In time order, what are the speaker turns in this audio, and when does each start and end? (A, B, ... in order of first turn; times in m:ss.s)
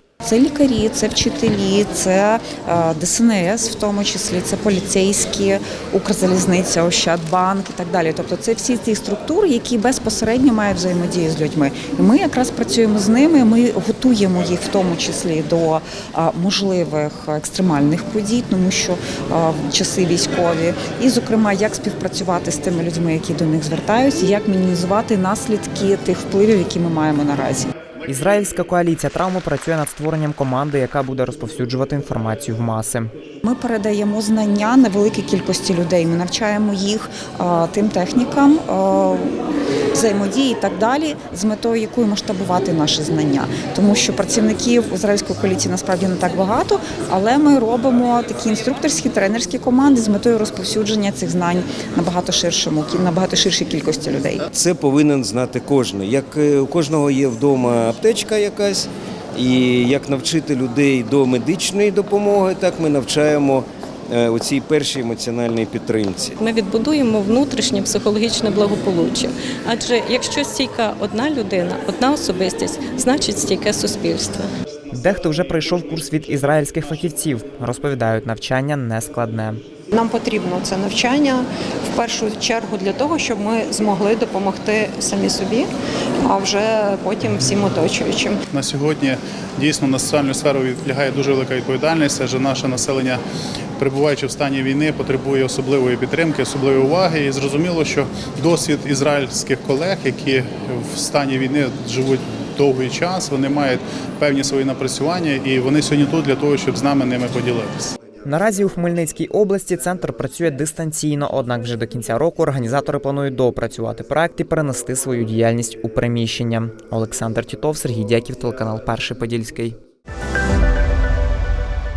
0:00.2-0:27.7 A
0:28.1-0:33.0 B
0:33.4-0:39.3 A
0:39.9-0:54.4 A
0:54.5-1:06.4 C
1:06.4-1:14.5 D
1:15.0-1:19.6 B
1:20.0-1:25.6 E
1:26.4-1:28.3 E
1:28.6-1:33.2 F
1:33.8-1:47.9 F
1:48.2-1:59.8 B